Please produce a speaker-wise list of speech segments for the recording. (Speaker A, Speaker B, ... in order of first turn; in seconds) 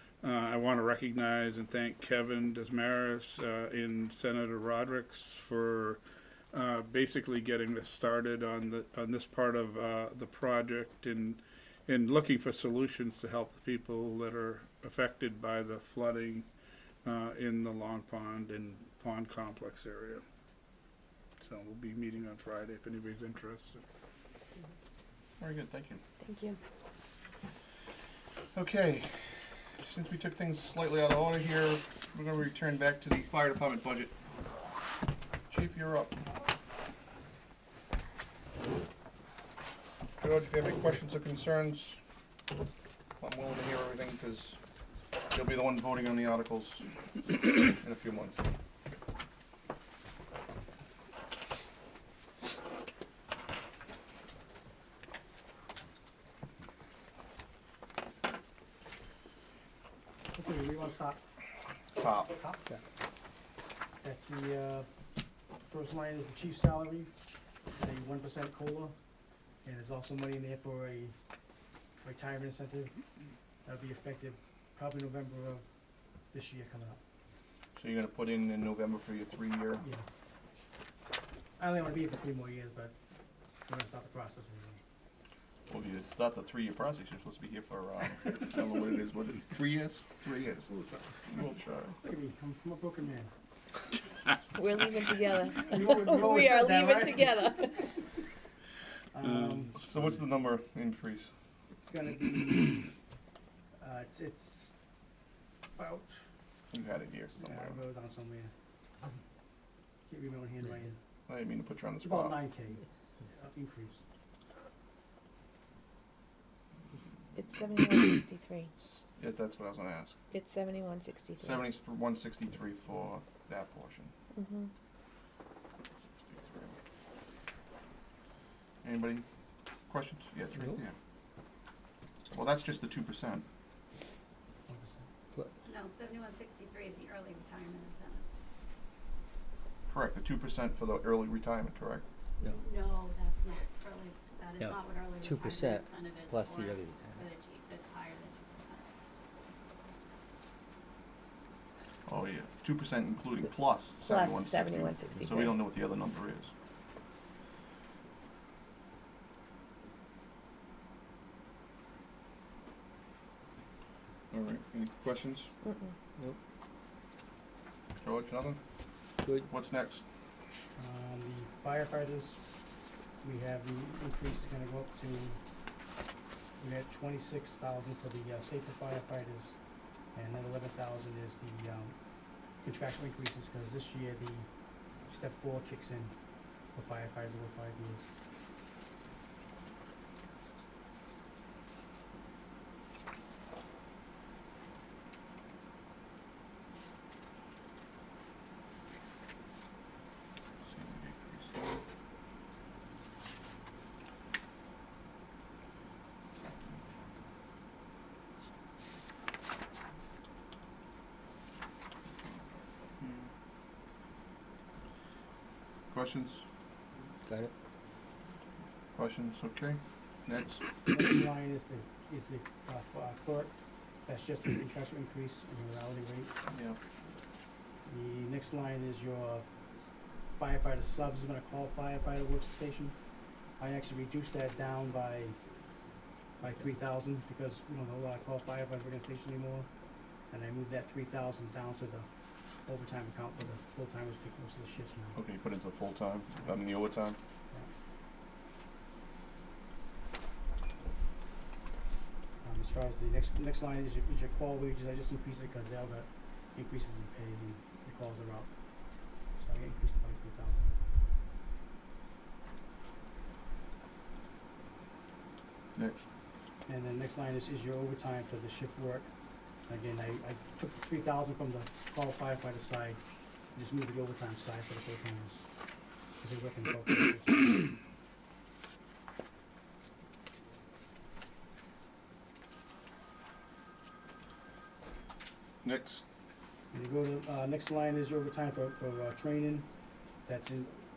Speaker A: 0.2-6.0, 6.5-16.4, 17.1-20.2, 21.4-23.8
Speaker B: 25.4-26.0, 28.5-34.1, 35.5-36.3, 40.2-42.0, 43.2-44.6, 45.3-48.5, 62.0-62.3, 77.8-79.8, 85.7-90.7, 91.3-92.0, 99.8-101.3, 106.7-107.8, 111.3-112.4, 118.8-120.1, 121.4-124.1, 126.3-126.8, 128.8-129.2, 129.9-130.9, 132.3-133.4, 139.9-142.1, 152.1-156.5, 164.3-165.5, 168.0-168.6, 169.5-170.0, 200.7-201.8, 206.4-207.0, 213.0-213.3, 215.9-216.4, 218.9-220.7, 226.5-226.8, 245.2-247.2, 265.8-266.0, 285.6-286.0
Speaker C: 26.2-26.6, 94.5-97.9, 117.3-118.7, 120.3-121.6, 124.3-124.7, 154.0-155.6, 165.6-165.9
Speaker D: 60.3-61.2, 62.3-62.6, 64.0-64.9, 65.6-67.1, 67.8-68.9, 69.6-71.1, 72.0-72.9, 73.6-75.6, 76.3-77.0, 81.6-82.9, 83.7-84.8, 90.7-91.0, 92.0-93.3, 95.7-97.7, 99.1-99.8, 101.7-102.8, 103.8-104.7, 105.8-106.2, 107.4-108.5, 110.1-111.0, 112.0-114.0, 134.7-135.1, 170.8-172.4, 173.2-175.4, 176.6-179.6, 180.1-181.9, 182.6-184.5, 185.1-186.1, 186.7-188.1, 220.9-223.5, 224.1-226.3, 227.9-229.5, 230.3-232.9, 233.6-235.4, 236.4-239.7, 240.3-242.1, 242.7-245.2, 252.4-258.5, 259.4-260.7, 266.6-269.1, 269.7-273.0, 273.5-275.4, 276.2-277.7, 286.7-289.7, 290.2-290.8
Speaker E: 135.7-138.2, 142.4-148.9
Speaker F: 144.6-147.3, 217.3-217.5